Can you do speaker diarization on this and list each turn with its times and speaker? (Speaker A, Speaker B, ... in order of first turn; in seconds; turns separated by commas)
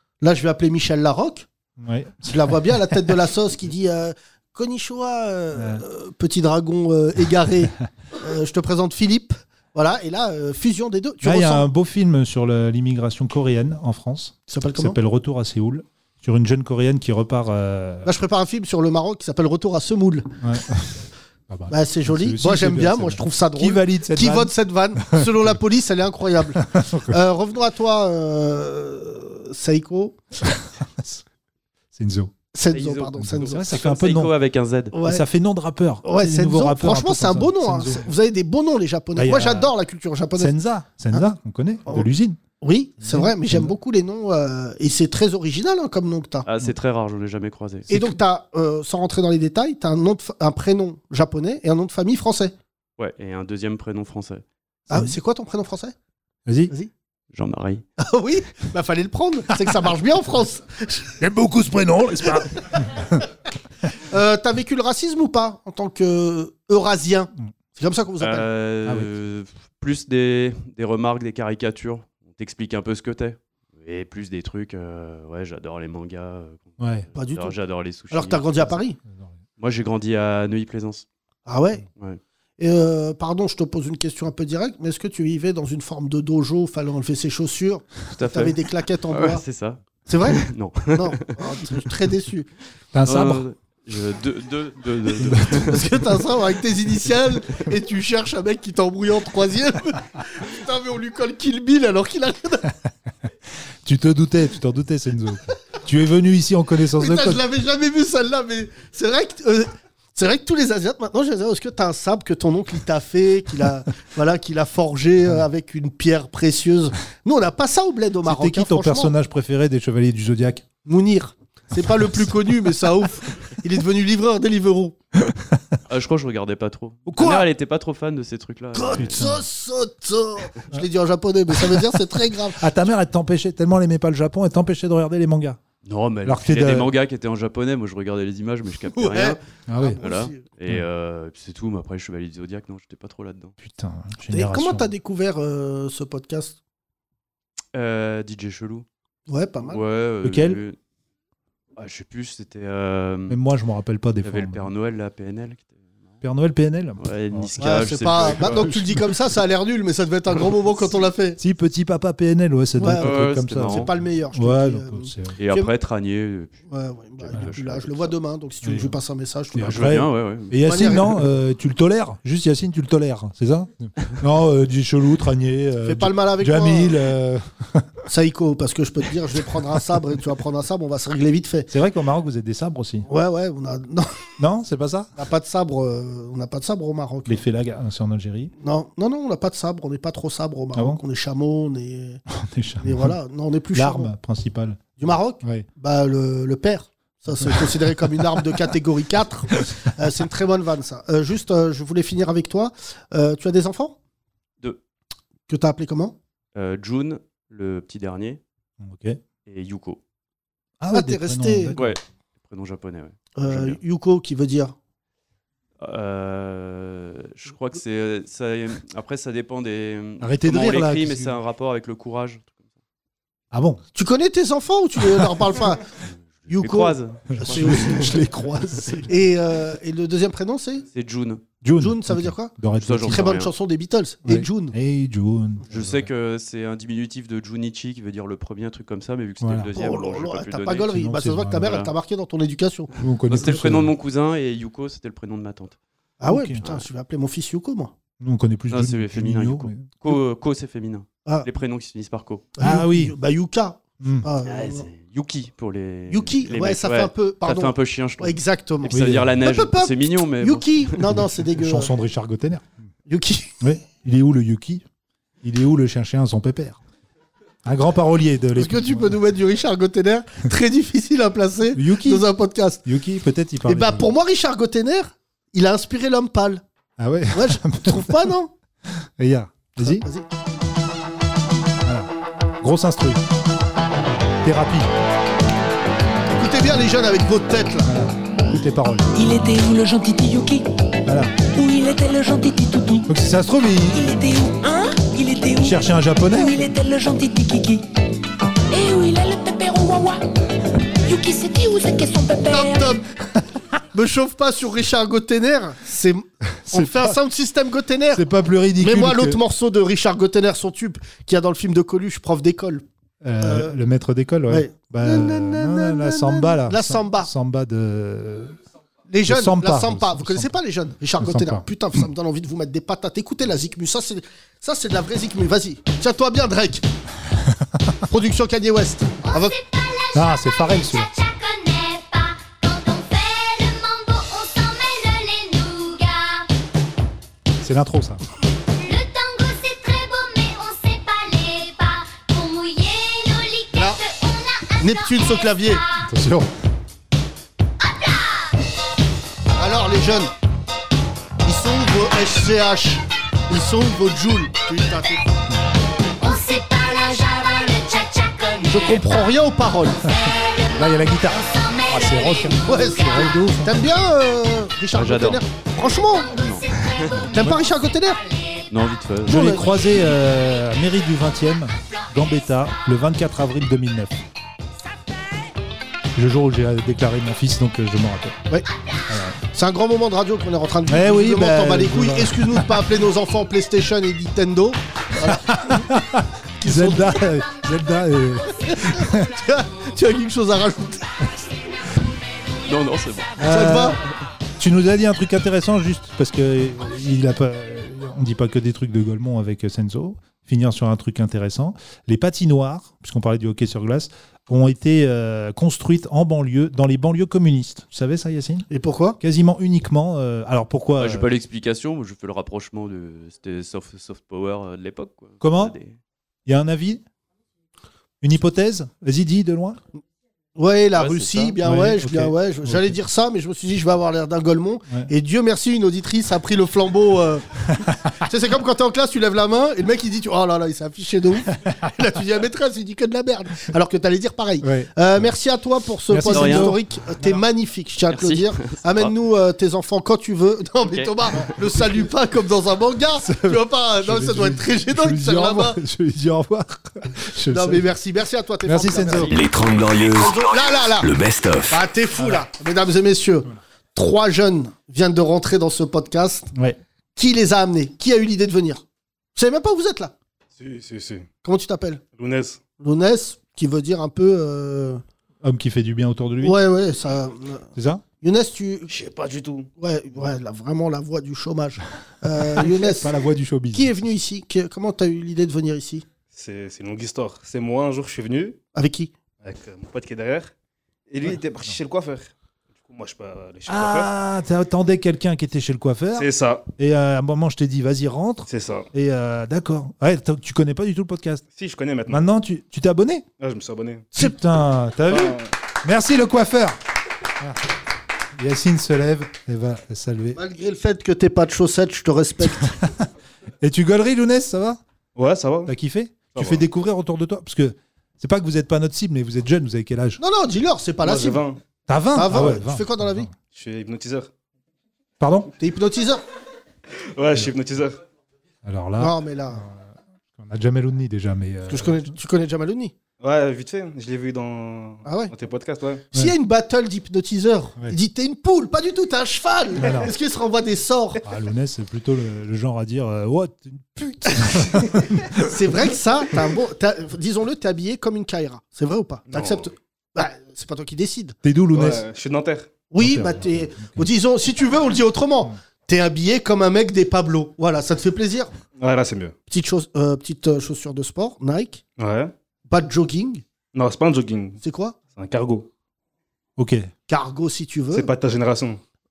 Speaker A: 0.2-1.5, Speaker B: 1.8-3.0, Speaker A: 2.2-11.7, Speaker B: 5.5-5.8, Speaker B: 11.2-18.1, Speaker A: 14.5-15.0, Speaker A: 18.1-20.3, Speaker B: 20.4-20.9, Speaker B: 21.5-25.5, Speaker A: 21.7-30.2, Speaker B: 26.6-27.2, Speaker B: 30.5-31.2, Speaker B: 31.9-32.3, Speaker A: 32.5-33.6, Speaker C: 32.7-34.9, Speaker B: 33.2-34.3, Speaker A: 34.9-35.2, Speaker B: 35.0-38.1, Speaker A: 36.0-40.5, Speaker B: 39.1-39.7, Speaker B: 40.4-42.4, Speaker A: 42.6-46.5, Speaker B: 43.0-43.7, Speaker C: 46.5-47.9, Speaker A: 47.9-52.5, Speaker C: 53.0-54.4, Speaker B: 54.9-55.1, Speaker A: 54.9-55.9, Speaker B: 56.5-56.7, Speaker C: 57.3-57.8, Speaker A: 58.0-61.1, Speaker B: 61.2-63.2, Speaker A: 64.0-68.5, Speaker C: 68.2-78.8, Speaker B: 76.8-77.1, Speaker A: 77.1-77.5, Speaker A: 78.1-79.0, Speaker C: 79.6-81.0, Speaker A: 81.5-81.8, Speaker A: 82.6-89.4, Speaker C: 88.1-91.3, Speaker A: 90.1-92.5, Speaker B: 92.9-93.5, Speaker C: 93.0-96.1, Speaker B: 95.2-95.8, Speaker A: 95.6-102.7, Speaker B: 103.8-107.4, Speaker A: 107.0-119.1, Speaker B: 118.2-120.7, Speaker A: 120.9-125.0, Speaker B: 121.9-122.3, Speaker B: 125.3-125.6, Speaker C: 125.9-129.2, Speaker B: 127.1-127.5, Speaker A: 128.7-132.7, Speaker B: 129.0-129.4, Speaker B: 131.7-131.9, Speaker B: 132.6-135.6, Speaker C: 135.8-139.4, Speaker B: 136.2-136.9, Speaker A: 138.9-140.4, Speaker B: 139.7-140.0, Speaker C: 140.0-143.5, Speaker B: 143.6-144.9, Speaker A: 144.3-146.6, Speaker C: 147.7-148.9, Speaker A: 149.3-149.8, Speaker C: 149.7-150.8, Speaker B: 150.2-150.6, Speaker C: 151.8-153.4, Speaker B: 153.3-154.7, Speaker C: 154.2-155.7, Speaker B: 156.2-159.1, Speaker C: 157.0-158.7, Speaker A: 157.6-161.4, Speaker B: 161.4-165.4, Speaker A: 162.8-165.7, Speaker C: 162.9-163.9, Speaker C: 165.4-166.6, Speaker A: 166.7-169.9, Speaker C: 167.2-168.1, Speaker B: 168.6-168.9, Speaker B: 169.5-177.9, Speaker C: 169.6-170.8, Speaker A: 170.6-171.1, Speaker A: 175.8-176.9, Speaker A: 178.1-181.7, Speaker B: 181.7-183.1, Speaker A: 183.1-184.1, Speaker B: 184.4-185.1, Speaker A: 185.2-187.4, Speaker B: 187.3-188.5, Speaker A: 188.6-192.2, Speaker B: 190.8-191.0, Speaker B: 192.3-193.2, Speaker A: 192.8-194.1, Speaker B: 193.7-195.7, Speaker A: 195.0-203.9, Speaker B: 197.4-198.6, Speaker A: 205.5-206.2, Speaker C: 206.5-208.4, Speaker B: 208.8-209.2, Speaker C: 209.5-210.0, Speaker B: 210.8-211.9, Speaker A: 210.9-211.8, Speaker C: 211.8-213.8, Speaker A: 213.4-214.8, Speaker C: 215.8-222.5, Speaker B: 220.2-221.4, Speaker B: 223.5-223.8, Speaker A: 223.9-225.8, Speaker C: 226.2-228.1, Speaker A: 226.5-228.2, Speaker B: 227.3-229.1, Speaker A: 228.9-230.8, Speaker C: 230.9-231.4, Speaker B: 231.6-233.4, Speaker A: 231.8-232.5, Speaker C: 232.8-233.5, Speaker A: 233.1-234.8, Speaker B: 234.2-236.1, Speaker C: 235.7-240.9, Speaker B: 239.4-239.7, Speaker A: 239.8-242.9, Speaker B: 240.9-241.9, Speaker B: 243.0-243.9, Speaker C: 243.3-245.8, Speaker A: 246.2-247.9, Speaker B: 246.3-246.6, Speaker B: 248.2-250.2, Speaker C: 248.7-252.5, Speaker A: 252.6-254.9, Speaker B: 252.6-253.1, Speaker B: 254.0-254.3, Speaker C: 254.5-261.0, Speaker A: 256.1-261.9, Speaker B: 258.9-259.4, Speaker B: 261.1-262.7, Speaker A: 263.1-263.6, Speaker B: 263.6-264.8, Speaker B: 265.4-266.8, Speaker B: 267.6-269.2, Speaker A: 268.6-272.9, Speaker B: 271.8-272.3, Speaker B: 272.8-274.1, Speaker A: 273.6-276.6, Speaker B: 277.0-278.3, Speaker A: 277.3-278.5, Speaker B: 278.9-280.0, Speaker A: 279.8-280.2, Speaker B: 281.8-282.1, Speaker B: 282.6-283.2, Speaker B: 284.4-284.9, Speaker A: 286.3-287.9, Speaker B: 287.8-289.1, Speaker D: 289.1-290.6, Speaker B: 291.1-291.3, Speaker D: 291.5-293.1, Speaker B: 293.1-294.1, Speaker D: 293.9-297.9, Speaker B: 295.6-296.6, Speaker D: 298.7-300.2, Speaker D: 301.0-303.0, Speaker A: 302.5-303.0, Speaker A: 303.9-308.2, Speaker B: 306.6-307.2, Speaker B: 308.1-309.4, Speaker A: 308.8-312.9, Speaker B: 313.2-318.6, Speaker A: 313.4-313.8, Speaker A: 314.5-317.3, Speaker A: 319.1-326.9, Speaker B: 319.2-320.6, Speaker B: 321.2-322.0, Speaker B: 327.5-328.0, Speaker A: 328.1-329.5, Speaker E: 329.2-336.5, Speaker B: 330.1-331.1, Speaker B: 337.6-338.2, Speaker E: 338.8-346.0, Speaker A: 343.7-344.0, Speaker A: 344.8-345.8, Speaker B: 346.0-346.5, Speaker E: 347.8-348.6, Speaker A: 349.6-350.3, Speaker A: 351.4-355.3, Speaker E: 356.2-359.0, Speaker A: 358.6-360.1, Speaker B: 360.2-363.9, Speaker E: 361.6-362.5, Speaker A: 362.6-366.3, Speaker C: 364.9-365.4, Speaker C: 366.3-367.2, Speaker B: 367.2-367.6, Speaker A: 367.3-368.2, Speaker C: 368.7-369.7, Speaker B: 369.2-374.2, Speaker A: 369.3-369.6, Speaker B: 376.1-378.4, Speaker B: 379.1-379.4, Speaker A: 379.4-386.0, Speaker B: 380.9-382.8, Speaker B: 385.2-389.3, Speaker A: 386.6-387.2, Speaker A: 388.6-391.1, Speaker C: 392.6-393.4, Speaker B: 393.4-394.0, Speaker A: 393.4-394.0, Speaker B: 394.6-408.7, Speaker A: 408.7-409.2, Speaker B: 409.2-411.3, Speaker C: 411.0-416.0, Speaker B: 415.4-415.7, Speaker B: 416.5-417.0, Speaker B: 418.2-419.8, Speaker A: 420.6-427.6, Speaker C: 420.9-421.6, Speaker B: 421.6-423.0, Speaker A: 428.2-445.8, Speaker B: 434.6-435.2, Speaker B: 436.1-437.4, Speaker C: 436.3-436.8, Speaker C: 438.1-439.1, Speaker C: 440.9-441.5, Speaker B: 443.2-447.9, Speaker A: 447.5-449.3, Speaker B: 448.6-449.4, Speaker F: 449.3-451.8, Speaker A: 450.1-451.1, Speaker A: 451.7-456.5, Speaker B: 452.2-452.4, Speaker B: 456.5-456.8, Speaker A: 457.1-458.8, Speaker A: 459.4-460.1, Speaker G: 460.6-461.3, Speaker A: 461.4-462.0, Speaker G: 462.2-462.6, Speaker A: 462.8-465.0, Speaker B: 465.4-466.6, Speaker A: 466.4-467.7, Speaker B: 467.8-468.0, Speaker A: 468.2-468.9, Speaker G: 468.9-469.7, Speaker A: 469.8-473.1, Speaker B: 472.5-474.0, Speaker A: 473.7-476.0, Speaker G: 476.3-478.6, Speaker A: 478.7-479.1, Speaker G: 479.4-480.5, Speaker G: 481.1-482.3, Speaker G: 482.9-484.1, Speaker B: 483.7-491.4, Speaker G: 486.1-486.6, Speaker G: 488.5-488.9, Speaker G: 491.5-492.2, Speaker B: 492.1-493.2, Speaker G: 493.4-494.1, Speaker B: 494.1-496.8, Speaker G: 495.1-495.5, Speaker B: 498.4-500.4, Speaker A: 500.4-502.8, Speaker B: 502.6-502.9, Speaker B: 503.6-504.8, Speaker G: 505.1-505.7, Speaker B: 505.6-510.2, Speaker G: 506.4-506.6, Speaker A: 510.2-511.4, Speaker G: 511.0-511.6, Speaker B: 511.9-513.3, Speaker A: 512.1-513.3, Speaker G: 513.5-514.3, Speaker B: 515.2-515.5, Speaker A: 515.6-516.2, Speaker G: 517.0-518.0, Speaker B: 518.6-522.1, Speaker A: 519.0-519.6, Speaker A: 521.7-522.9, Speaker G: 523.2-526.0, Speaker A: 525.0-525.3, Speaker A: 526.1-531.2, Speaker B: 529.8-530.1, Speaker B: 531.2-535.5, Speaker A: 534.4-541.4, Speaker G: 539.3-539.7, Speaker B: 541.4-542.0, Speaker G: 541.7-542.7, Speaker A: 542.9-548.5, Speaker B: 543.0-544.1, Speaker G: 548.8-549.4, Speaker A: 549.5-551.8, Speaker G: 552.0-552.3, Speaker A: 552.7-553.4, Speaker G: 553.7-554.6, Speaker A: 554.6-555.0, Speaker G: 555.1-555.7, Speaker B: 556.6-556.9, Speaker A: 557.1-558.1, Speaker G: 557.9-558.8